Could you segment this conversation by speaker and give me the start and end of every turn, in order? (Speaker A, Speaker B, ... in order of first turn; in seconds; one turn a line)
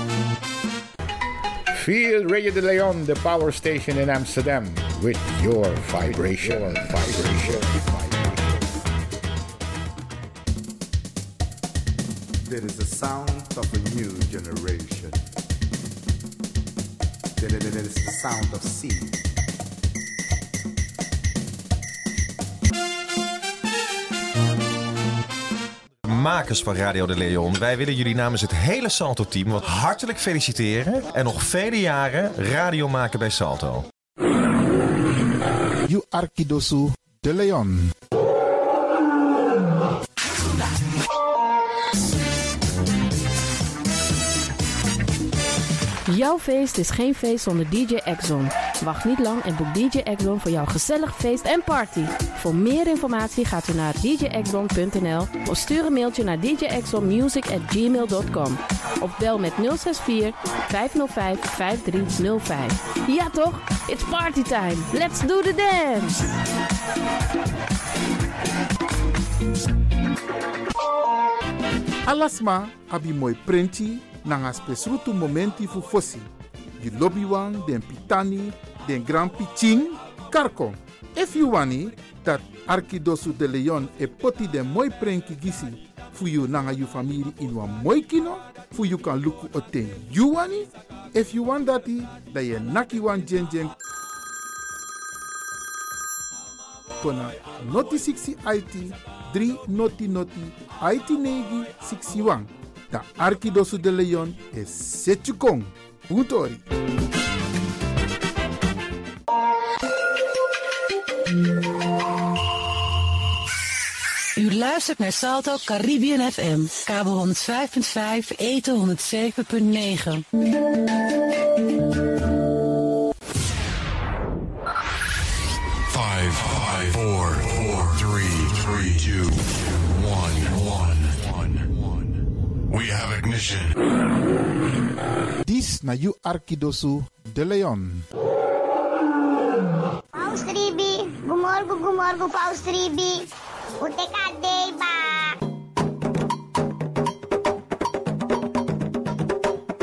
Speaker A: 1.7-8.4
Speaker B: 6.1-7.8
Speaker B: 12.4-15.2
Speaker B: 17.4-19.2
Speaker C: 26.1-33.9
Speaker D: 35.9-37.9
Speaker E: 46.1-66.2
Speaker D: 72.0-93.7
Speaker D: 97.0-106.7
Speaker F: 114.4-120.2
Speaker G: 125.9-132.1
Speaker G: 132.7-133.7
Speaker D: 135.4-138.1
Speaker H: 140.1-143.2
Speaker H: 143.8-145.3